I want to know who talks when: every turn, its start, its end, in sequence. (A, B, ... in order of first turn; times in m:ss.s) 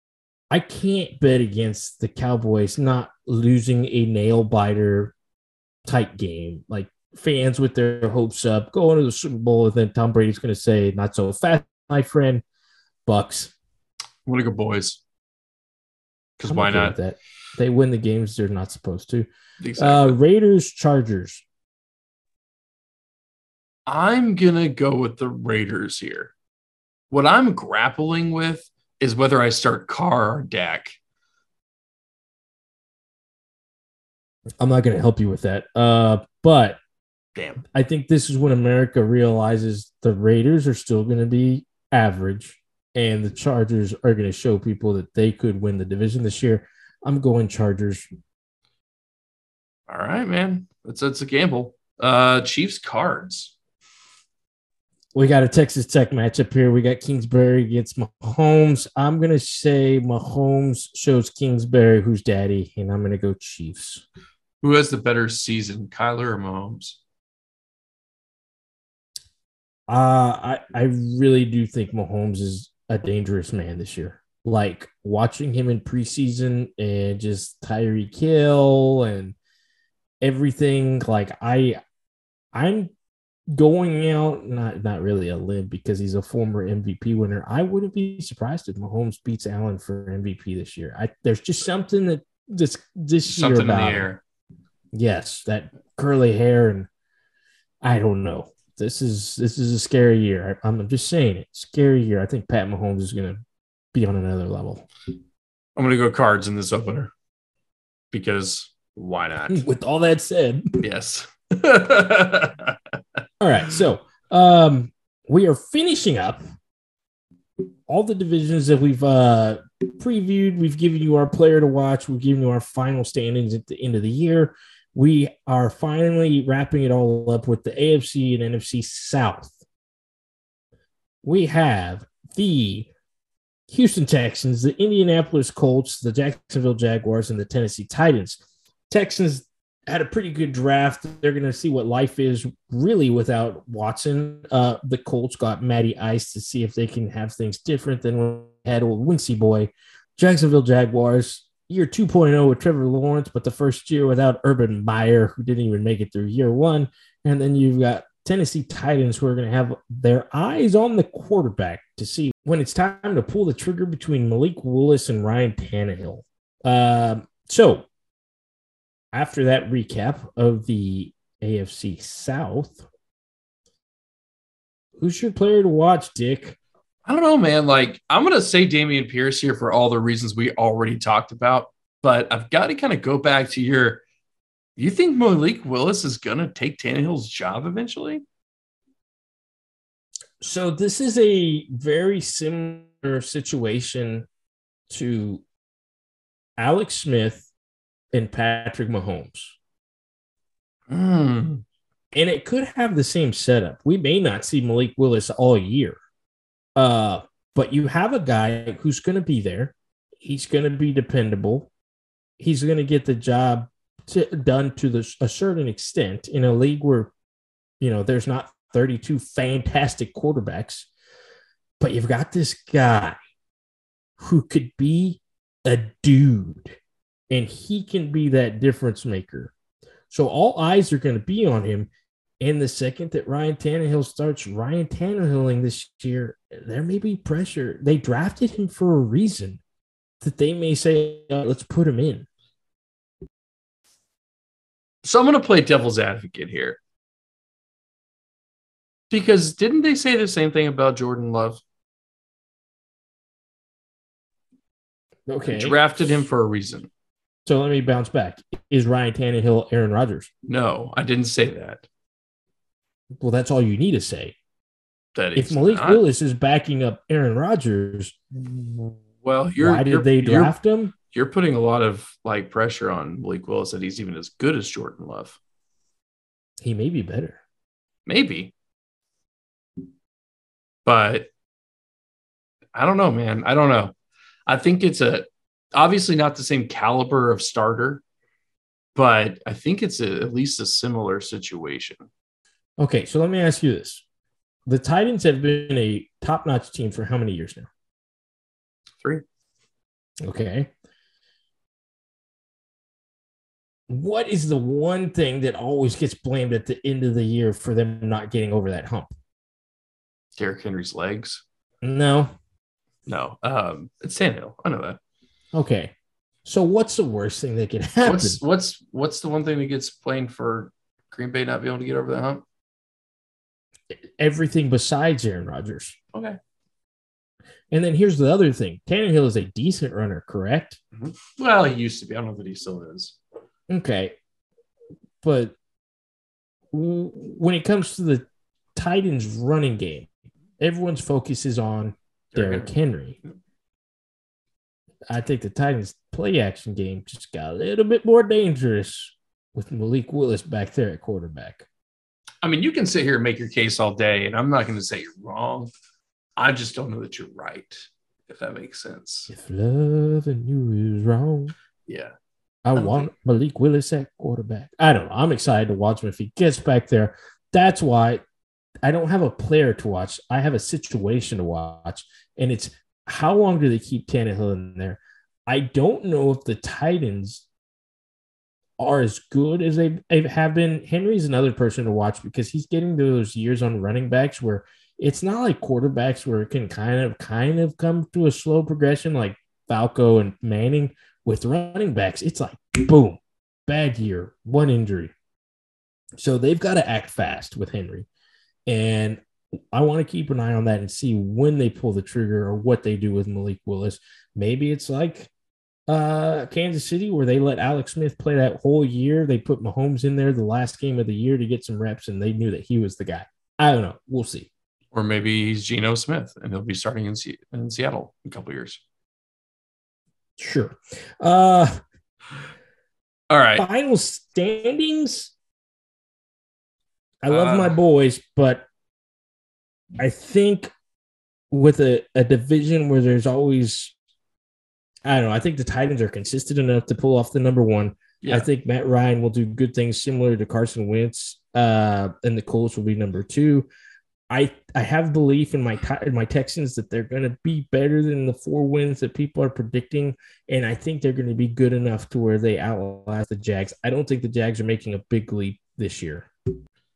0:00.5-0:05.1 A
0:05.8-0:12.4 A
0:13.0-0:13.5 A
0:14.2-0:15.0 B
0:16.4-0:17.0 B
0:16.4-0:21.4 A
0:19.6-0:20.2 B
0:23.9-0:26.3 B
0:27.1-0:30.9 B
0:34.6-0:36.8 A
0:37.3-0:37.6 B
0:37.7-0:48.0 A
0:49.9-0:53.5 B
0:55.1-1:04.0 A
1:04.6-1:07.0 B
1:09.9-1:19.4 A
1:20.2-1:21.8 A
1:22.5-1:22.9 A
1:23.5-1:34.1 A
1:33.3-1:34.2 B
1:34.9-1:36.9 A
1:37.8-1:43.4 A
1:43.9-1:44.8 A
1:45.8-1:47.1 B
1:48.1-1:49.6 B
1:49.5-1:50.8 A
1:50.8-1:53.2 B
1:53.4-1:56.4 A
1:57.9-2:09.5 A
2:11.2-2:12.9 A
2:13.7-2:47.8 A
2:49.1-2:52.9 A
2:55.0-2:56.6 A
2:57.0-3:04.0 B
3:04.8-3:08.2 B
3:10.4-3:14.3 A
3:14.9-3:15.4 A
3:16.6-3:17.5 A
3:18.1-3:19.5 A
3:20.9-3:21.6 B
3:22.1-3:26.0 A
3:26.8-3:31.7 A
3:32.4-3:37.1 A
3:37.8-3:40.9 A
3:41.8-3:43.2 A
3:44.2-3:46.8 A
3:47.3-3:49.5 A
3:50.1-3:51.9 A
3:52.4-3:59.6 A
4:00.2-4:02.3 A
4:05.0-4:06.8 B
4:09.1-4:11.6 B
4:15.3-4:16.1 A
4:15.4-4:16.9 B
4:17.4-4:20.3 A
4:20.4-4:21.8 B
4:23.2-4:24.3 A
4:25.1-4:26.0 B
4:25.4-4:28.2 A
4:28.3-4:30.5 B
4:29.6-4:30.9 A
4:31.1-4:35.4 B
4:36.6-4:37.4 A
4:38.0-4:38.5 B
4:40.8-4:41.3 B
4:42.7-4:43.9 B
4:44.5-4:48.0 B
4:48.9-4:52.0 B
4:52.8-4:54.0 A
4:54.7-4:57.7 A
5:00.2-5:00.7 A
5:03.9-5:09.1 A
5:10.4-5:11.4 B
5:11.8-5:12.3 A
5:13.1-5:15.0 B
5:15.5-5:15.9 A
5:16.4-5:18.4 A
5:18.0-5:22.4 B
5:24.2-5:26.0 A
5:26.1-5:26.4 B
5:27.7-5:30.8 A
5:30.9-5:33.2 B
5:33.7-5:34.1 A
5:35.2-5:35.5 A
5:36.7-5:40.1 A
5:40.6-5:43.2 A
5:42.3-5:42.7 B
5:45.1-5:51.6 A
5:52.4-5:55.7 B
5:56.4-5:59.3 B
5:59.3-6:01.5 A
6:01.9-6:02.1 B
6:02.6-6:08.2 A
6:02.8-6:03.1 B
6:08.8-6:17.4 A
6:18.8-6:35.1 A
6:36.2-6:38.1 A
6:38.7-6:39.2 A
6:39.7-6:45.3 A
6:45.9-6:54.5 A
6:54.9-6:58.8 B
7:00.4-7:01.8 A
7:03.3-7:03.6 B
7:03.6-7:05.3 A
7:07.2-7:08.6 A
7:07.3-7:07.8 B
7:10.0-7:10.7 A
7:11.5-7:13.9 A
7:15.0-7:23.7 A
7:18.2-7:18.5 B
7:24.3-7:36.3 A